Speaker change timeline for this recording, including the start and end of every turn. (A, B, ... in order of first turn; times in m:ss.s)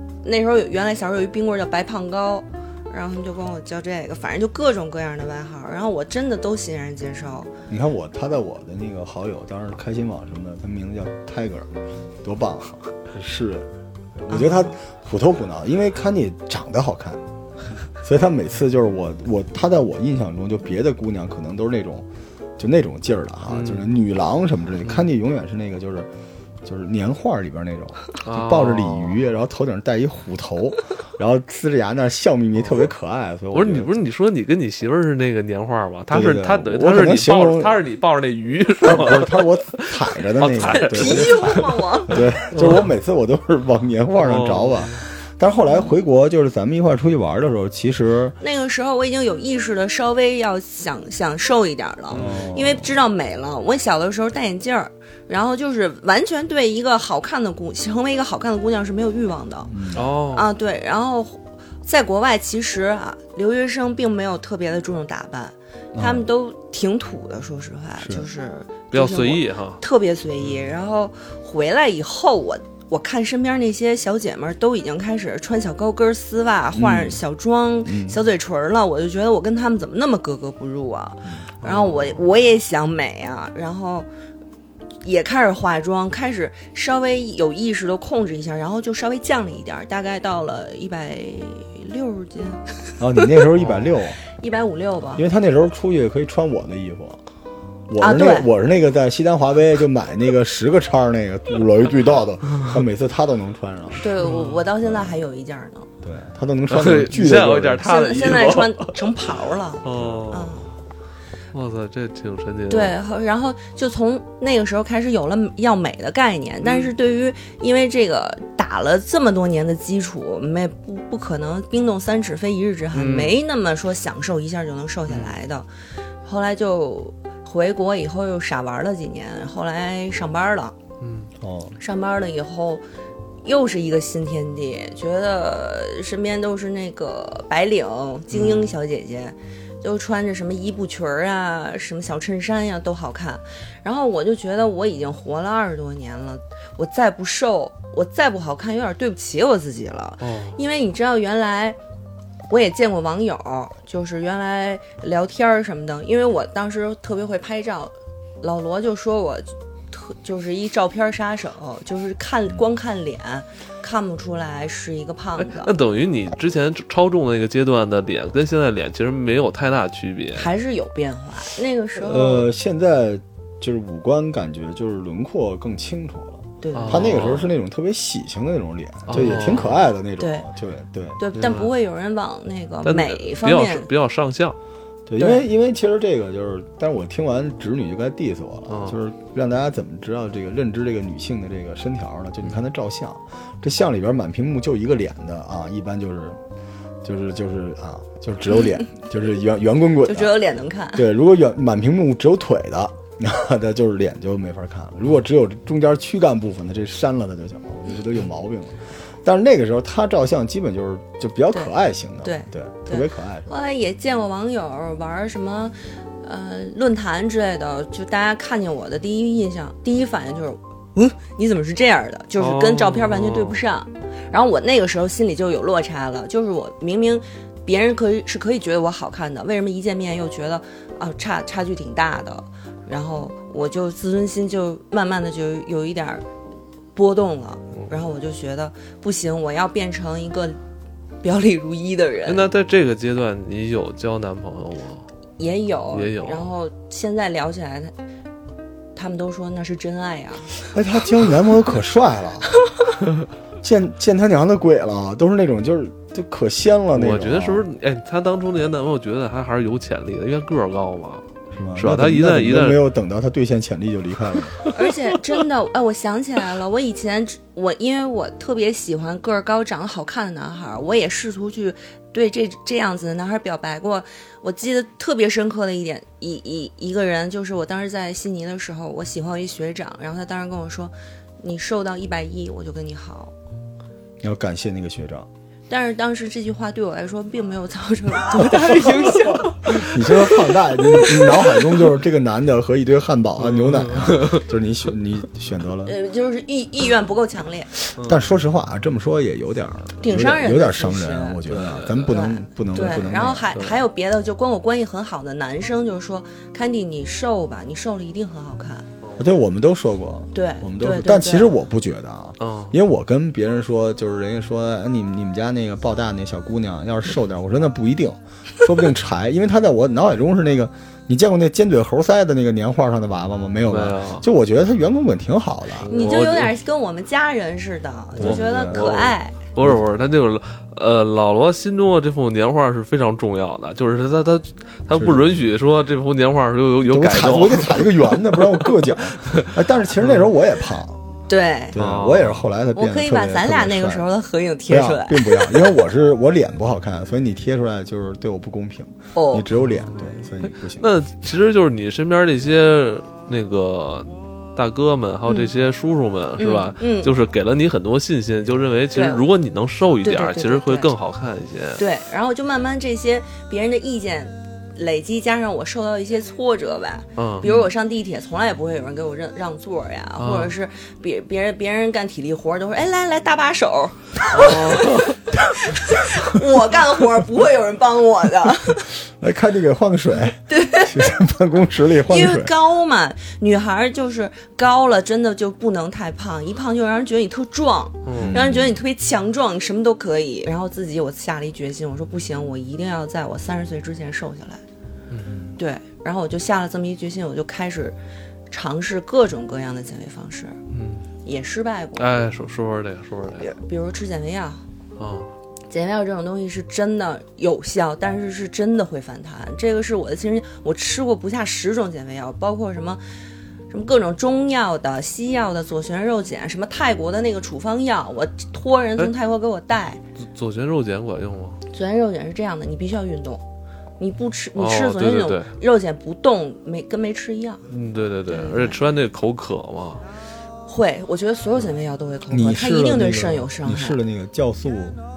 0:00.2-0:07.5 A
0:07.7-0:17.2 B
0:14.3-0:14.8 A
0:18.0-0:22.1 B
0:22.6-0:26.1 B
0:23.5-0:23.9 C
0:26.6-0:33.9 B
0:28.2-0:29.2 C
0:33.5-0:41.8 C
0:36.1-0:37.8 B
0:38.8-0:48.4 B
0:40.6-0:42.2 A
0:42.5-0:42.9 C
0:44.2-0:45.0 C
0:48.4-1:24.1 A
0:52.1-0:52.9 B
0:59.7-1:00.1 B
0:59.9-1:00.5 C
1:05.9-1:06.3 B
1:08.9-1:09.8 C
1:16.8-1:17.2 B
1:17.9-1:18.2 B
1:21.6-1:22.2 C
1:25.0-1:32.7 A
1:33.0-1:34.2 B
1:33.6-1:33.9 C
1:34.4-1:35.2 A
1:35.2-1:37.2 B
1:37.9-1:44.1 B
1:38.0-1:38.5 A
1:44.0-1:45.9 A
1:44.2-1:44.6 C
1:44.8-1:45.2 B
1:46.0-1:48.0 B
1:46.7-1:48.9 C
1:47.8-1:50.7 A
1:49.8-1:50.6 C
1:51.5-1:53.0 C
1:52.7-2:05.7 A
1:56.6-1:56.9 C
2:02.9-2:03.4 C
2:05.1-2:05.4 C
2:06.2-2:10.8 A
2:11.0-2:11.3 C
2:11.4-2:11.8 B
2:11.8-2:12.8 A
2:13.4-2:31.8 A
2:18.3-2:18.8 C
2:30.2-2:30.6 C
2:32.5-2:45.7 A
2:45.4-2:50.5 C
2:50.4-2:52.5 A
2:52.0-3:01.2 B
2:56.6-2:57.2 A
2:56.7-2:57.5 C
2:59.1-2:59.9 C
3:00.2-3:00.5 A
3:01.2-3:03.9 A
3:01.4-3:01.7 C
3:02.8-3:04.6 C
3:05.1-3:16.4 B
3:05.2-3:05.4 A
3:08.7-3:09.0 C
3:17.0-3:20.4 B
3:20.0-3:21.1 A
3:21.0-3:33.5 B
3:31.5-3:56.2 A
3:42.4-3:43.6 C
3:57.0-4:00.6 A
4:01.2-4:02.5 A
4:02.3-4:05.1 C
4:05.4-4:07.9 A
4:05.9-4:06.5 C
4:09.0-4:10.6 A
4:10.7-4:12.6 B
4:13.6-4:17.6 B
4:16.9-4:21.2 C
4:21.5-4:24.6 B
4:21.8-4:22.8 C
4:24.7-4:43.3 A
4:44.2-4:45.3 B
4:45.7-4:51.7 A
4:48.8-4:55.9 B
4:53.4-4:54.5 C
4:55.8-4:57.7 A
4:58.0-4:58.2 C
4:58.0-5:03.5 B
5:00.0-5:01.4 A
5:01.5-5:02.2 C
5:02.0-5:08.9 A
5:03.6-5:03.8 C
5:09.2-5:25.9 B
5:10.3-5:11.6 A
5:12.4-5:12.7 C
5:23.7-5:24.2 C
5:25.8-5:26.5 C
5:25.9-5:29.4 A
5:28.2-5:29.0 B
5:28.2-5:40.3 C
5:34.9-5:35.4 B
5:36.9-5:41.0 B
5:41.3-5:41.8 A
5:41.7-5:44.1 B
5:41.8-5:42.5 C
5:42.8-5:45.8 A
5:44.7-5:50.9 B
5:49.2-5:49.5 A
5:49.6-6:01.8 C
5:56.4-5:57.1 A
5:58.9-5:59.2 A
6:00.0-6:00.9 A
6:01.8-6:18.9 A
6:07.2-6:07.5 C
6:10.2-6:10.5 C
6:14.3-6:15.2 C
6:19.1-6:22.5 B
6:20.5-6:21.2 A
6:22.1-6:34.6 A
6:28.0-6:28.5 C
6:28.2-6:28.8 B
6:35.1-6:35.6 C
6:35.6-6:38.0 A
6:38.5-6:40.6 A
6:40.7-6:41.1 C
6:41.2-6:42.3 A
6:42.0-6:43.5 C
6:43.4-6:44.6 A
6:45.0-6:45.3 C
6:45.7-6:53.0 A
6:53.7-7:00.0 A
7:00.2-7:01.6 C
7:01.7-7:03.4 A
7:04.0-7:07.6 A
7:04.6-7:05.6 C
7:07.7-7:10.0 C
7:08.3-7:08.8 A
7:10.7-7:14.0 A
7:12.3-7:15.0 B